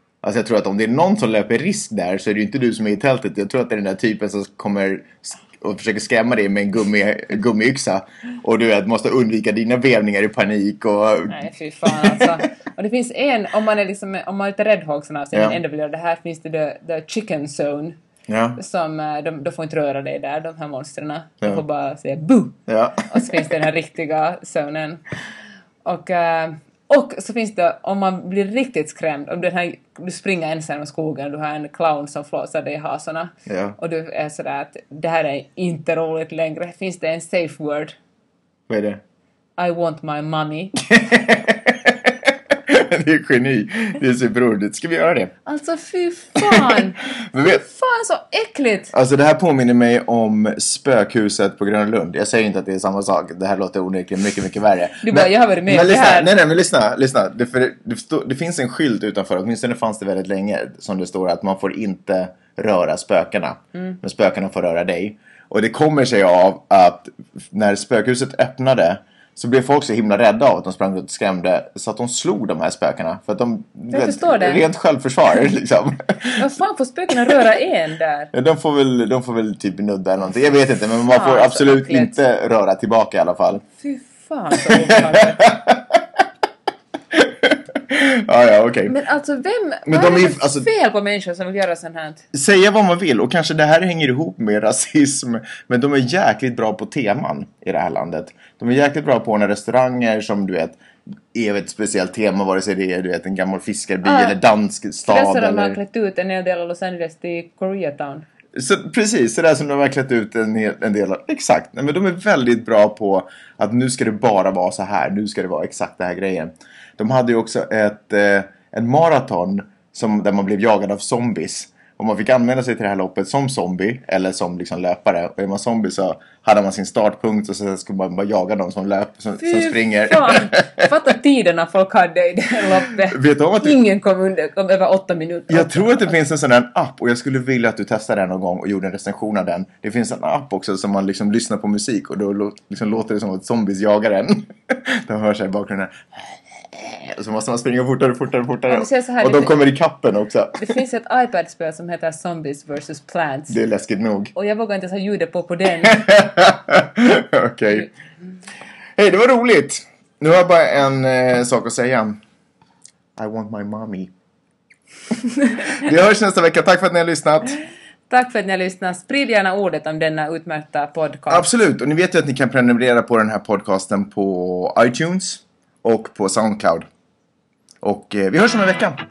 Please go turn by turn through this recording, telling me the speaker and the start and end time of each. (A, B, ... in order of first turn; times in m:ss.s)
0:00.2-0:12.3 A
0:11.3-0:18.0 B
0:15.3-0:15.6 A
0:18.3-0:18.6 A
0:18.6-0:25.0 B
0:22.7-0:23.2 A
0:25.8-0:38.0 B
0:33.5-0:33.8 A
0:38.7-0:39.0 A
0:39.6-0:40.7 B
0:40.8-0:45.3 A
0:45.4-0:48.9 B
0:46.4-0:47.6 A
0:48.9-1:16.4 A
0:55.0-0:56.3 B
1:13.9-1:14.6 B
1:16.3-1:18.3 B
1:18.3-1:23.6 A
1:21.0-1:22.2 B
1:23.8-1:25.5 B
1:24.6-1:26.0 A
1:27.1-1:28.9 A
1:28.9-1:32.2 B
1:29.9-1:30.7 A
1:32.3-1:40.8 A
1:41.3-1:45.8 A
1:44.0-1:44.4 B
1:45.0-1:48.2 B
1:48.5-2:10.9 A
2:09.4-2:16.2 B
2:13.1-2:13.8 A
2:15.5-2:30.8 A
2:28.7-2:29.6 B
2:30.5-2:33.6 B
2:33.5-2:34.3 A
2:34.3-2:36.1 B
2:35.8-2:37.9 A
2:39.0-2:42.2 A
2:43.2-2:44.1 A
2:45.6-2:47.6 A
2:48.1-2:51.5 B
2:51.3-2:56.8 A
2:57.8-2:59.0 A